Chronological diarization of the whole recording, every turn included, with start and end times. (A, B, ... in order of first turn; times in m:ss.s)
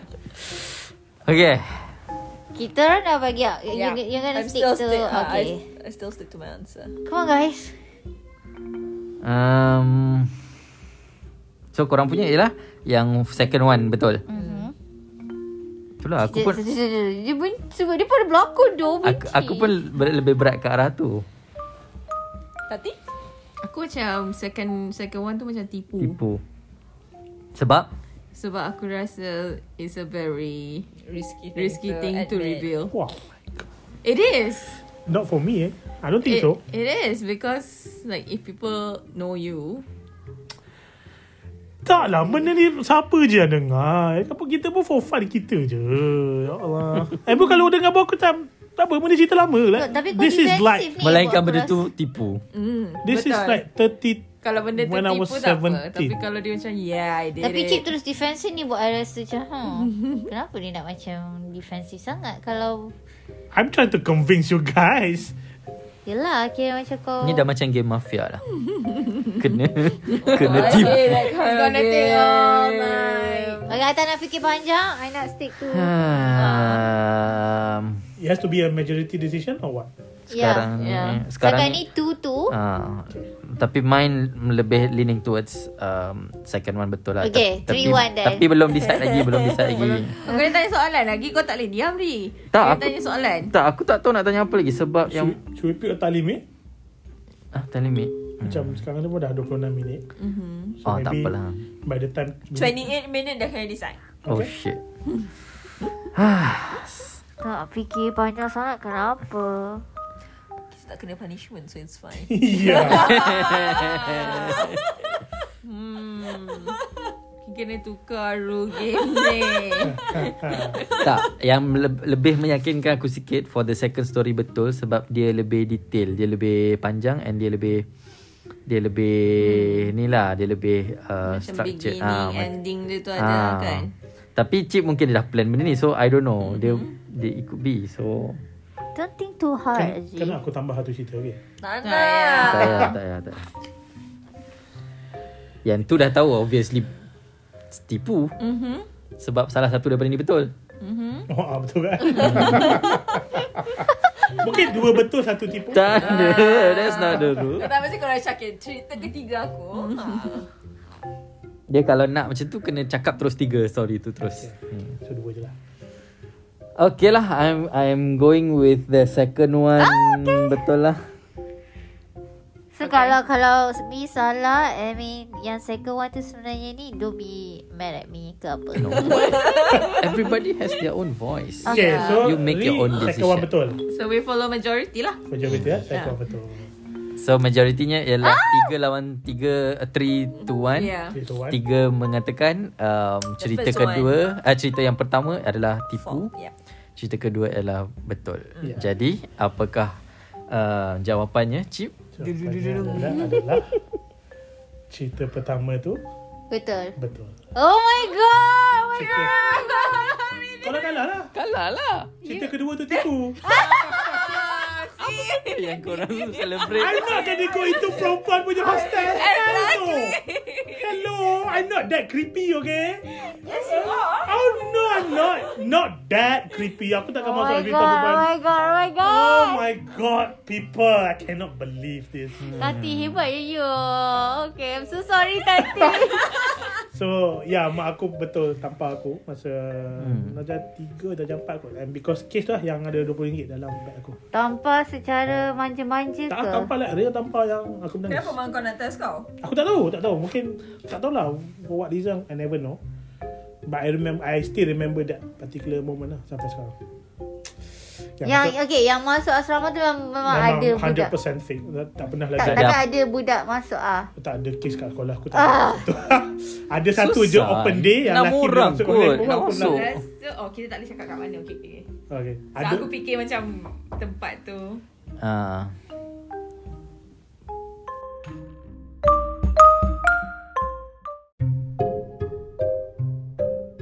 0:01.2-0:02.0 A
0:02.5-0:05.6 B
0:03.7-0:07.0 C
0:07.0-0:07.8 B
0:09.2-0:10.3 A
0:11.7-0:14.2 A
0:14.3-0:14.7 B
0:16.0-0:16.6 A
0:16.2-0:19.7 B
0:19.0-0:21.2 A
0:22.7-0:23.0 C
0:23.6-0:26.2 D
0:26.0-0:26.4 A
0:27.5-0:27.9 A
0:28.3-0:30.9 D
0:31.0-0:32.7 C
0:31.5-0:32.9 D
0:32.9-0:33.6 E
0:34.0-0:34.8 D
0:35.1-0:36.6 E
0:36.2-0:39.8 D
0:41.8-0:50.9 E
0:49.7-0:51.8 B
0:51.0-0:52.4 A
0:52.5-0:53.6 D
0:53.0-0:56.2 E
0:54.4-0:57.2 D
0:57.1-0:57.8 C
0:57.4-1:02.9 B
1:03.5-1:05.3 E
1:06.0-1:07.5 B
1:07.2-1:08.4 A
1:09.4-1:11.2 A
1:10.2-1:13.7 D
1:10.2-1:13.7 C
1:13.6-1:16.8 B
1:15.6-1:18.1 A
1:18.2-1:19.9 E
1:20.3-1:22.5 B
1:20.3-1:21.8 A
1:20.8-1:21.2 D
1:22.5-1:30.2 A
1:27.2-1:28.5 B
1:28.9-1:29.6 C
1:29.7-1:33.5 D
1:32.5-1:35.4 A
1:35.1-1:36.4 E
1:37.5-1:38.8 A
1:38.4-1:40.0 E
1:40.2-1:40.8 D
1:40.8-1:41.6 A
1:40.8-1:42.9 E
1:42.5-1:44.0 C
1:44.2-1:44.8 A
1:46.1-1:47.2 A
1:47.4-1:49.8 B
1:50.7-1:55.0 C
1:52.3-1:53.2 E
1:52.8-1:54.8 A
1:54.1-1:54.5 D
1:55.6-1:56.8 D
1:56.5-1:56.9 C
1:57.4-2:00.8 D
1:58.9-2:01.1 C
1:59.9-2:00.8 E
2:01.0-2:07.8 A
2:08.7-2:12.5 A
2:09.4-2:09.9 D
2:11.2-2:13.9 D
2:13.1-2:18.4 A
2:16.4-2:16.9 D
2:18.9-2:20.4 B
2:19.7-2:21.4 E
2:21.6-2:22.9 C
2:21.8-2:22.9 D
2:22.4-2:23.4 A
2:25.6-2:26.9 A
2:27.7-2:28.3 A
2:28.4-2:28.8 D
2:29.2-2:30.5 A
2:30.8-2:31.3 D
2:31.3-2:36.2 E
2:32.0-2:32.8 D
2:32.2-2:32.7 A
2:35.7-2:37.8 A
2:36.0-2:37.4 D
2:36.2-2:40.5 C
2:39.8-2:40.4 D
2:41.7-2:44.9 A
2:44.4-2:45.5 E
2:46.8-2:51.1 A
2:49.8-2:50.6 B
2:52.7-2:59.5 B
2:52.8-2:53.1 D
2:58.8-3:03.5 A
2:59.0-2:59.8 C
3:01.6-3:02.3 B
3:01.7-3:03.8 E
3:01.7-3:02.2 D
3:03.8-3:05.2 D
3:05.3-3:06.7 E
3:05.4-3:05.8 A
3:07.2-3:11.0 A
3:08.2-3:08.7 B
3:10.7-3:11.2 C
3:11.1-3:11.6 E
3:11.5-3:16.3 A
3:13.4-3:14.1 C
3:16.0-3:16.5 C
3:17.0-3:20.0 A
3:20.5-3:23.6 A
3:22.2-3:23.8 E
3:24.9-3:26.0 E
3:26.5-3:26.9 B
3:27.0-3:27.3 E
3:27.5-3:30.3 B
3:28.9-3:29.3 E
3:29.3-3:30.7 D
3:30.6-3:31.3 E
3:31.3-3:32.2 A
3:32.2-3:33.4 E
3:33.4-3:40.8 D
3:33.6-3:34.6 C
3:33.7-3:34.4 B
3:35.3-3:37.2 A
3:36.7-3:48.2 E
3:36.8-3:40.0 C
3:43.2-3:45.5 C
3:47.2-3:49.6 B
3:49.0-3:52.7 E
3:52.4-3:53.2 A
3:52.5-3:56.6 B
3:56.9-4:04.2 E
4:00.0-4:00.4 A
4:04.3-4:06.7 B
4:06.3-4:08.4 E
4:08.1-4:09.3 C
4:09.4-4:12.8 E
4:13.6-4:16.7 E
4:18.2-4:18.5 E
4:18.2-4:21.1 B
4:20.2-4:22.7 E
4:22.4-4:24.1 B
4:22.4-4:22.8 A
4:24.2-4:29.9 E
4:25.3-4:25.9 B
4:26.9-4:30.0 A
4:29.3-4:31.8 D
4:32.1-4:32.9 E
4:32.6-4:34.8 D
4:35.2-4:35.7 A